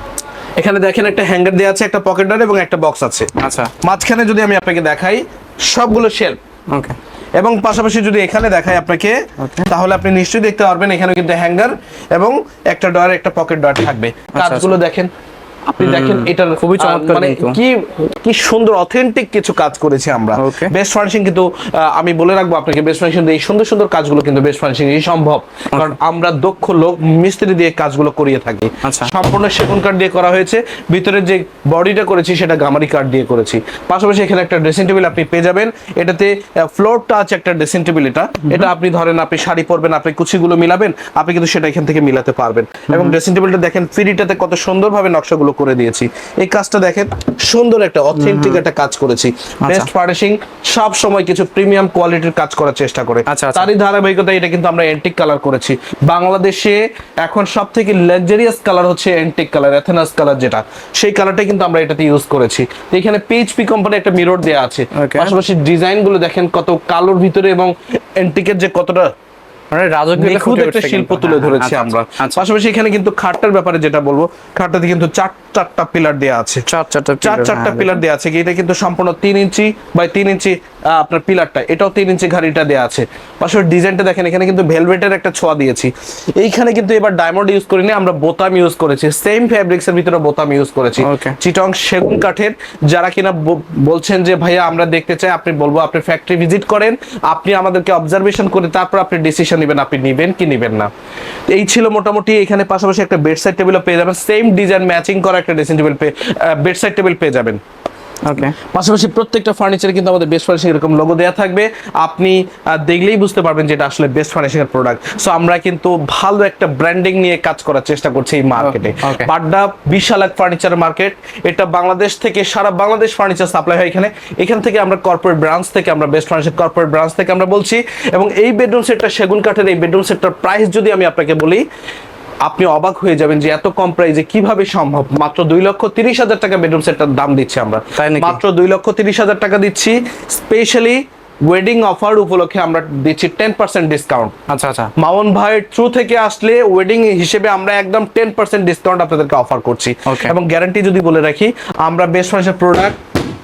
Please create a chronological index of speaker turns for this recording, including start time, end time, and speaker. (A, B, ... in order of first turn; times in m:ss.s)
0:00.6-0:06.4 A
0:03.4-0:03.7 B
0:07.4-0:15.1 A
0:09.4-0:09.7 B
0:14.3-0:14.8 B
0:15.8-1:09.1 A
0:15.8-0:17.6 B
0:20.4-0:20.7 B
0:28.8-0:29.1 B
0:42.9-0:43.2 B
0:48.2-0:48.6 B
0:49.6-0:49.9 B
0:53.3-0:53.7 B
1:05.0-1:05.3 B
1:09.7-1:12.4 B
1:10.2-1:16.6 A
1:16.7-1:18.0 B
1:17.2-1:40.9 A
1:31.0-1:31.4 B
1:41.5-1:47.6 A
1:48.2-1:48.6 B
1:48.7-2:11.6 A
1:58.6-1:59.3 B
2:12.4-2:24.3 A
2:18.0-2:18.4 B
2:24.5-2:24.9 B
2:25.0-2:33.0 A
2:30.1-2:30.3 B